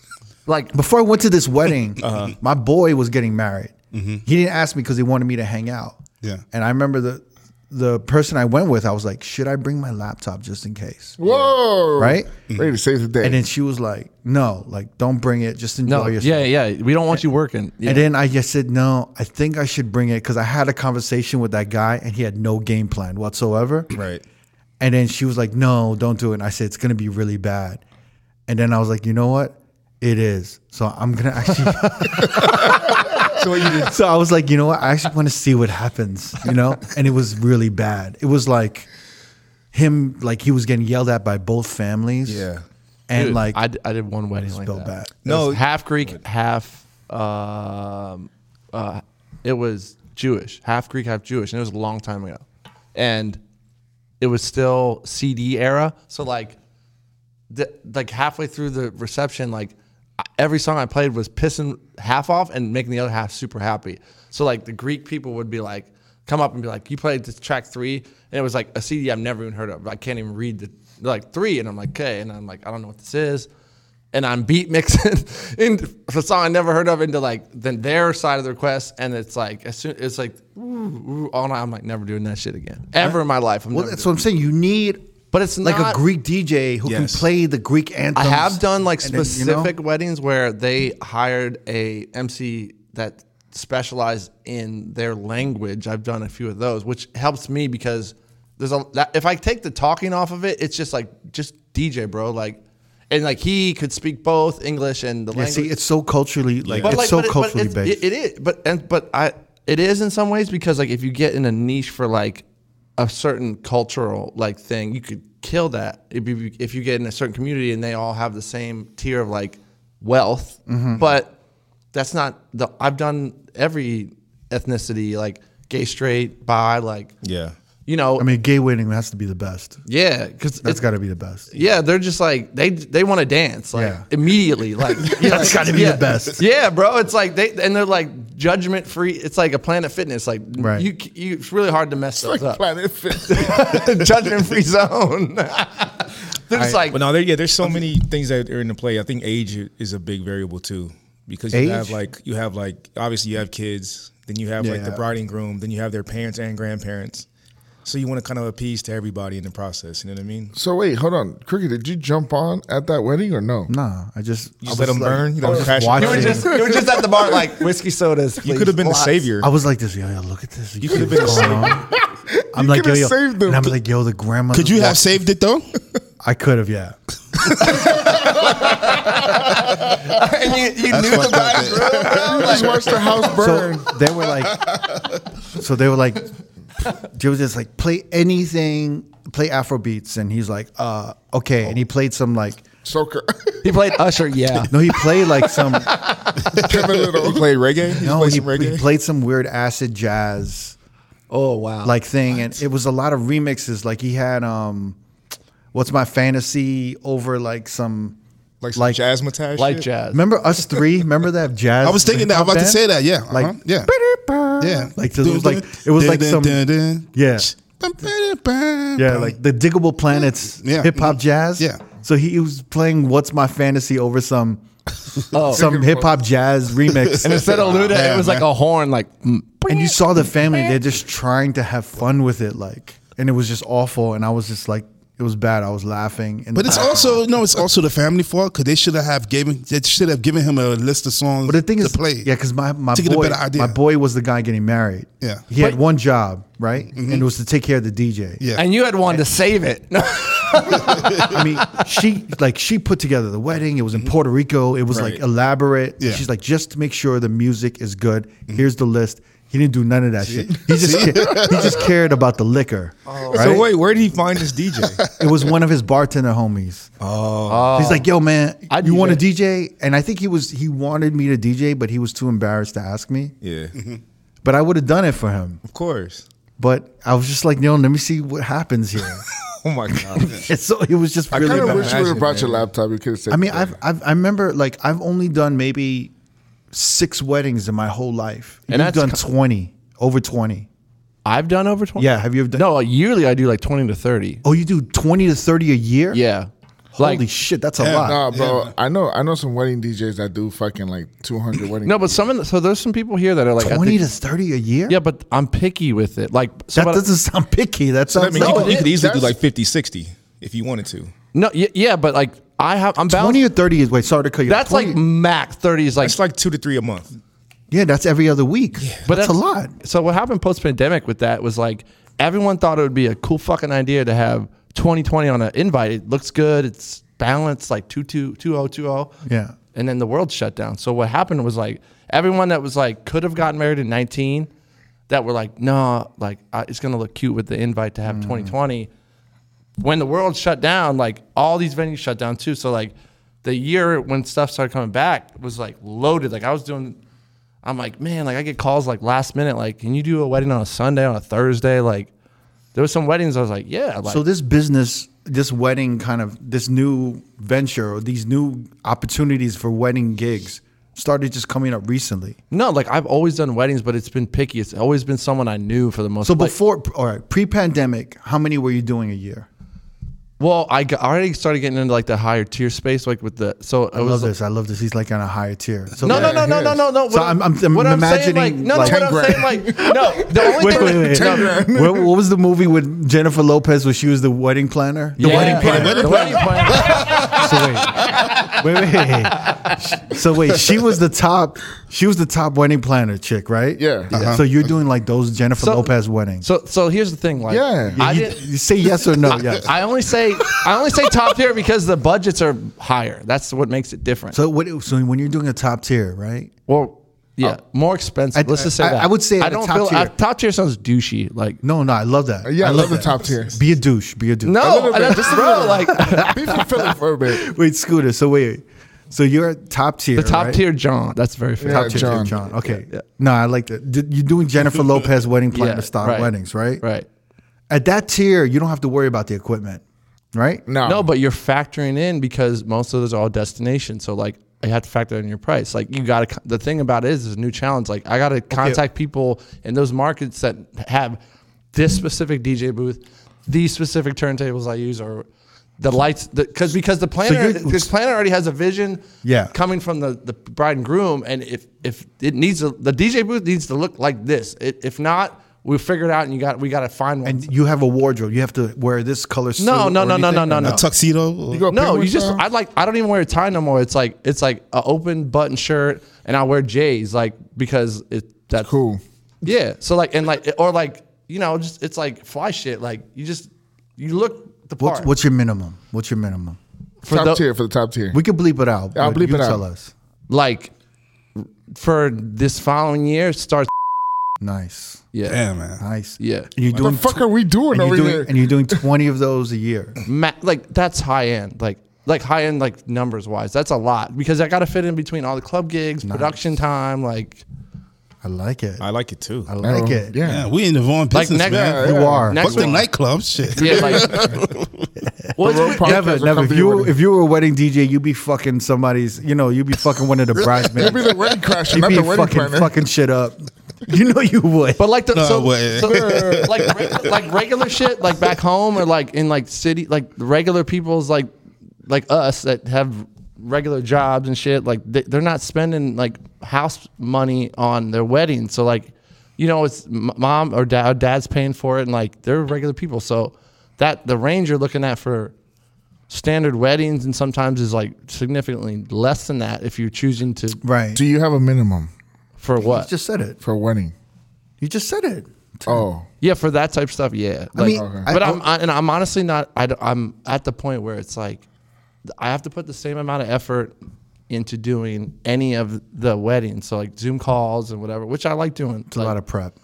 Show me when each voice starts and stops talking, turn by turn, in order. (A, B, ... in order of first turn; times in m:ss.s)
0:00.5-0:00.8 A
0:00.7-0:06.0 B
0:02.0-0:02.4 C
0:03.9-0:04.2 D
0:06.5-0:11.2 B
0:11.2-0:13.4 E
0:11.2-0:11.5 C
0:12.0-0:12.3 B
0:13.2-0:16.5 B
0:15.9-0:18.1 A
0:17.8-0:24.0 B
0:23.9-0:24.2 C
0:24.8-0:27.8 B
0:28.5-0:32.6 B
0:32.0-0:32.5 A
0:33.3-0:34.0 C
0:33.8-0:38.9 B
0:39.7-0:42.5 B
0:42.3-0:42.6 C
0:43.1-0:43.6 B
0:43.2-0:53.4 A
0:44.4-0:45.1 B
0:45.2-0:46.2 C
0:54.2-0:56.6 A
0:57.5-1:13.5 A
1:14.1-1:24.1 A
1:23.7-1:25.1 B
1:25.3-1:26.0 A
1:25.6-1:29.7 B
1:26.8-1:27.3 C
1:28.2-1:45.7 A
1:45.3-1:48.0 B
1:46.6-1:47.0 C
1:46.8-1:52.4 A
1:53.0-2:01.3 A
2:00.7-2:01.0 B
2:01.9-2:07.1 A
2:07.2-2:07.5 C
2:07.9-2:08.3 A
2:08.2-2:09.8 B
2:09.9-2:10.8 A
2:10.6-2:11.5 B
2:11.5-2:22.6 A
2:13.7-2:14.1 B
2:15.0-2:16.4 B
2:20.6-2:20.9 B
2:22.2-2:24.4 E
2:23.2-2:27.0 A
2:26.5-2:26.8 B
2:26.9-2:37.3 C
2:31.5-2:32.0 B
2:34.6-2:35.0 B
2:37.8-2:40.5 C
2:40.5-2:43.7 E
2:43.7-2:46.6 B
2:44.6-2:46.5 C
2:45.4-2:47.5 E
2:46.0-2:49.2 A
2:48.4-2:49.5 C
2:49.4-2:51.9 B
2:50.8-2:51.8 C
2:51.8-2:53.8 E
2:52.5-2:55.1 B
2:54.5-2:55.6 D
2:56.2-2:57.0 B
2:57.8-3:03.1 A
3:00.9-3:02.2 D
3:02.1-3:04.0 E
3:03.3-3:04.7 B
3:05.5-3:06.3 B
3:06.9-3:12.7 B
3:12.8-3:13.8 E
3:13.6-3:16.7 A
3:14.7-3:16.0 B
3:16.5-3:18.4 E
3:17.2-3:18.8 C
3:18.0-3:20.8 B
3:21.3-3:22.0 A
3:21.8-3:25.0 B
3:25.7-3:28.2 B
3:28.6-3:29.9 C
3:28.8-3:29.0 B
3:29.6-3:30.2 A
3:30.1-3:37.5 B
3:31.8-3:33.9 D
3:34.6-3:39.4 D
3:39.0-3:44.6 B
3:40.6-3:41.8 D
3:45.3-3:45.7 A
3:45.5-3:46.2 E
3:45.5-3:47.6 B
3:47.2-3:50.8 A
3:47.4-3:47.9 E
3:47.9-3:48.5 D
3:49.7-3:57.2 B
3:56.6-4:02.3 D
4:01.4-4:08.4 B
4:02.9-4:03.8 D
4:07.0-4:07.3 D
4:08.4-4:08.6 D
4:08.6-4:11.9 A
4:10.8-4:11.3 D
4:10.9-4:23.7 B
4:14.9-4:15.2 C
4:20.3-4:21.8 D
4:21.3-4:21.6 E
4:23.1-4:23.6 A
4:23.3-4:25.0 C
4:25.2-4:26.9 B
4:27.0-4:27.8 C
4:27.5-4:28.1 A
4:27.8-4:33.4 B
4:28.7-4:29.2 A
4:33.4-4:33.7 C
4:33.8-4:34.0 D
4:34.4-4:35.6 B
4:35.6-4:36.2 C
4:36.6-4:39.3 B
4:39.5-4:40.5 C
4:39.9-4:42.2 B
4:41.3-4:42.7 C
4:41.3-4:43.7 E
4:43.3-4:46.1 B
4:46.7-4:50.7 B
4:48.7-4:49.2 A
4:51.2-4:54.4 A
4:52.0-4:52.7 B
4:54.4-4:56.2 B
4:56.1-4:57.2 A
4:57.0-4:58.2 B
4:57.8-4:58.7 D
4:58.0-5:02.2 E
5:01.8-5:04.0 A
5:03.6-5:05.0 B
5:04.9-5:07.0 A
5:06.7-5:08.8 B
5:08.2-5:11.1 C
5:08.4-5:08.9 A
5:08.4-5:09.4 E
5:11.3-5:13.4 A
5:13.1-5:15.0 B
5:14.5-5:16.2 A
5:16.0-5:17.1 C
5:17.7-5:19.7 B
5:19.1-5:29.1 A
5:29.2-5:29.6 B
5:29.7-5:34.5 A
5:35.1-5:38.9 A
5:38.1-5:38.5 B
5:39.8-5:47.0 A
5:47.6-5:52.1 A
5:52.8-5:54.2 A
5:54.1-6:02.4 B
6:02.5-6:06.6 A
6:06.2-6:09.5 B
6:10.4-6:14.3 A
6:14.0-6:26.5 B
6:16.0-6:21.6 A
6:16.0-6:16.8 E
6:18.8-6:22.1 E
6:25.2-6:29.8 A
6:25.2-6:27.3 D
6:25.5-6:27.2 E
6:27.2-6:36.5 B
6:33.8-6:34.4 E
6:34.1-6:34.4 D
6:35.6-6:38.4 A
6:37.5-6:38.0 E
6:38.0-6:39.8 B
6:39.5-6:44.4 A
6:44.3-6:46.5 B
6:46.7-6:51.6 A
6:48.3-6:50.1 B
6:51.6-6:54.7 B
6:52.4-6:53.6 E
6:54.4-6:56.6 A
6:54.6-6:57.5 E
6:56.0-6:56.6 B
6:57.3-7:00.6 B
7:00.2-7:03.0 A
7:01.6-7:02.4 E
7:01.7-7:06.8 B
7:05.5-7:07.1 A
7:07.7-7:09.8 B
7:10.3-7:10.6 B
7:10.7-7:11.1 E
7:10.8-7:21.2 A
7:18.5-7:18.8 B
7:21.7-7:25.3 A
7:25.8-7:37.5 A
7:27.2-7:27.9 B
7:29.2-7:29.6 B
7:37.2-7:40.8 B
7:39.6-7:40.8 A
7:40.6-7:41.7 D
7:41.5-7:42.4 E
7:41.7-7:48.7 A
7:48.6-7:49.0 E
7:49.4-7:55.1 A
7:54.8-7:56.6 B
7:57.0-7:57.4 A
7:57.1-7:58.2 E
7:58.1-7:59.9 B
7:59.0-7:59.6 E
8:00.3-8:00.7 A
8:01.4-8:03.7 A
8:04.4-8:05.1 B
8:05.1-8:05.4 A
8:05.3-8:05.8 D
8:05.8-8:10.0 B
8:06.2-8:06.5 A
8:06.8-8:08.5 E
8:10.0-8:17.4 A
8:16.0-8:16.4 B
8:18.2-8:18.9 B
8:18.8-8:19.5 C
8:19.5-8:20.4 B
8:19.6-8:20.5 E
8:20.2-8:24.9 D
8:21.1-8:22.9 A
8:21.5-8:22.4 E
8:21.8-8:22.8 B
8:23.6-8:24.3 A
8:23.6-8:24.4 E
8:25.4-8:26.1 A
8:25.4-8:26.9 E
8:25.4-8:34.9 B
8:30.8-8:32.7 E
8:34.8-8:41.3 A
8:35.1-8:37.0 D
8:35.8-8:36.6 E
8:41.9-8:55.3 A
8:56.1-9:00.6 A
9:00.6-9:01.0 B
9:01.0-9:01.9 E
9:02.4-9:02.9 A
9:02.6-9:03.4 B
9:03.4-9:03.9 E
9:04.6-9:05.9 B
9:05.7-9:06.1 E
9:06.2-9:11.4 A
9:07.6-9:08.4 B
9:07.7-9:08.1 E
9:12.2-9:13.7 A
9:14.3-9:19.2 A
9:18.9-9:19.6 B